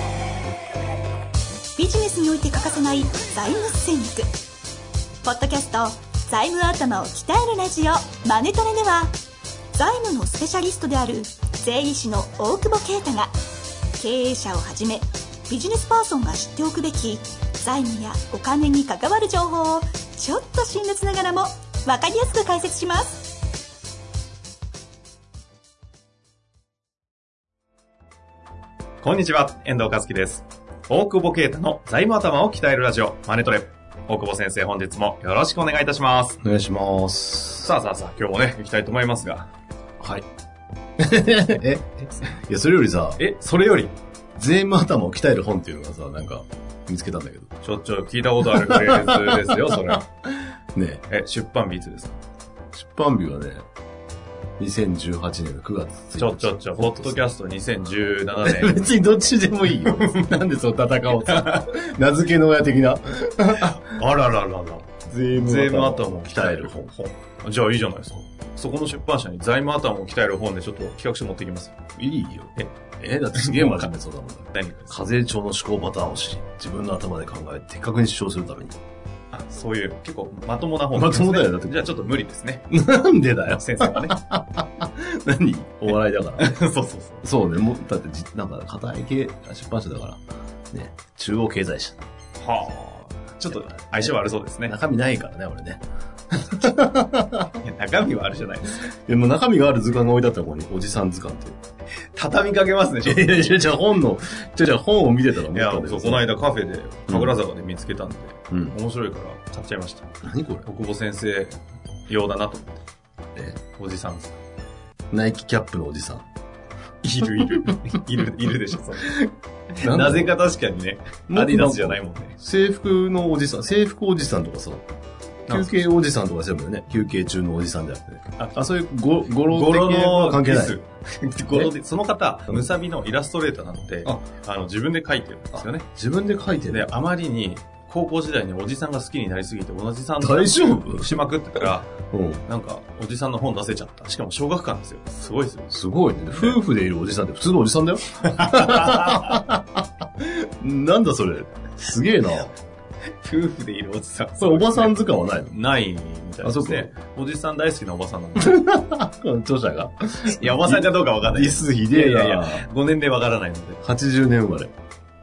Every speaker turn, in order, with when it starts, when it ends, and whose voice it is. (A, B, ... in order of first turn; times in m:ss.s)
0:01.8-0:04.3 A
0:05.2-0:09.2 A
0:09.8-0:13.3 A
0:14.0-0:23.4 A
0:29.0-0:36.4 B
0:36.4-0:37.7 C
0:37.6-0:39.5 B
0:40.0-0:40.2 C
0:41.0-0:43.2 C
0:43.2-0:44.0 B
0:44.4-0:47.5 C
0:47.6-0:50.0 B
0:48.4-0:50.1 C
0:50.8-0:51.0 C
0:51.1-0:52.2 B
0:52.7-0:53.6 C
0:54.6-0:57.2 C
0:56.2-0:58.9 B
0:58.4-1:03.8 C
1:01.2-1:01.7 B
1:03.6-1:11.8 B
1:05.1-1:06.9 C
1:12.0-1:18.8 C
1:13.3-1:13.9 B
1:14.5-1:15.0 B
1:19.3-1:22.7 B
1:20.9-1:21.9 C
1:22.7-1:26.6 C
1:23.5-1:24.2 B
1:25.9-1:27.2 B
1:27.2-1:32.0 C
1:32.4-1:34.7 B
1:33.5-1:37.5 C
1:37.6-1:38.8 B
1:38.8-1:41.6 C
1:42.1-1:43.7 B
1:43.0-1:46.3 C
1:45.5-1:50.1 B
1:47.1-1:47.4 C
1:48.5-1:48.8 C
1:50.2-1:50.7 C
1:50.6-1:52.8 B
1:53.8-1:54.4 B
1:55.1-1:56.2 C
1:57.0-2:02.4 B
1:59.8-2:00.4 C
2:01.3-2:04.8 C
2:05.5-2:05.8 B
2:05.5-2:10.8 C
2:08.4-2:08.7 B
2:09.4-2:15.9 B
2:15.5-2:17.0 C
2:16.7-2:25.7 B
2:20.2-2:22.4 C
2:25.7-2:32.5 C
2:26.3-2:26.6 B
2:28.3-2:29.4 B
2:33.2-2:38.6 B
2:34.4-2:35.6 C
2:36.4-2:36.9 C
2:38.4-2:42.7 C
2:40.4-2:43.8 B
2:43.8-2:44.7 C